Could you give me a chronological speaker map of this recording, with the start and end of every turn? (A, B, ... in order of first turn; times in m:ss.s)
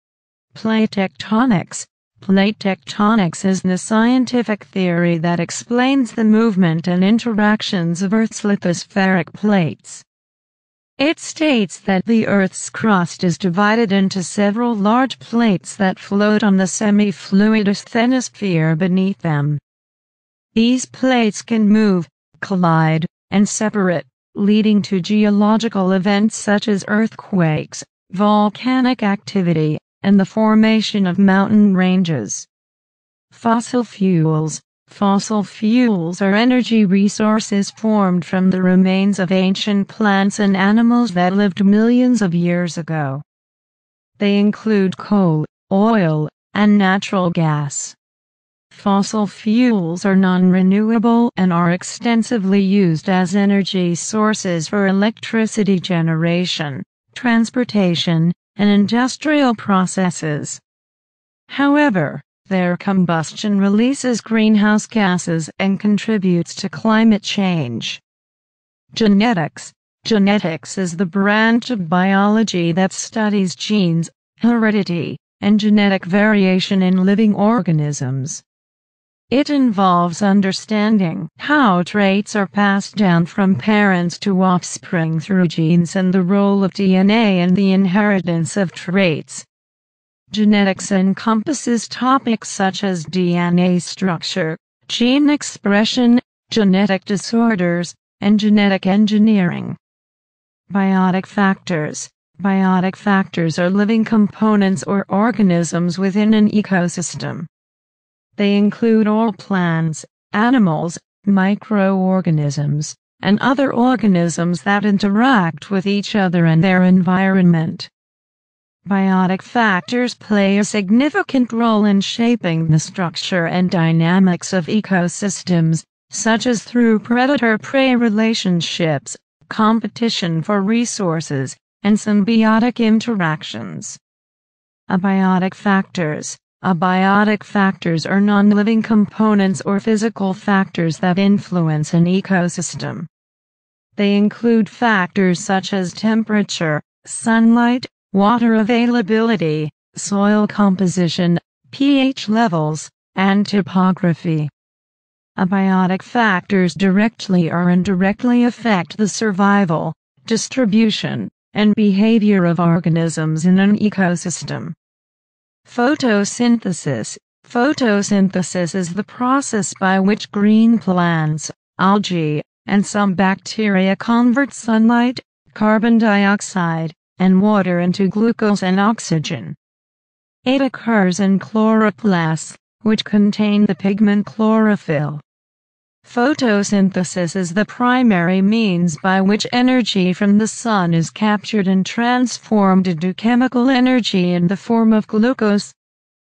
0:00.5-0:10.0 A
0:11.0-0:19.6 A
0:20.5-0:32.5 A
0:33.3-0:43.2 A
0:44.2-0:48.0 A
0:48.7-1:00.6 A
1:01.5-1:08.0 A
1:08.9-1:18.4 A
1:19.3-1:29.5 A
1:30.3-1:39.8 A
1:40.7-1:47.5 A
1:48.4-1:57.9 A
1:58.8-2:14.0 A
2:14.9-2:23.1 A
2:24.0-2:34.5 A
2:35.4-2:44.8 A
2:45.6-2:59.6 A
3:00.4-3:05.2 A
3:06.0-3:15.7 A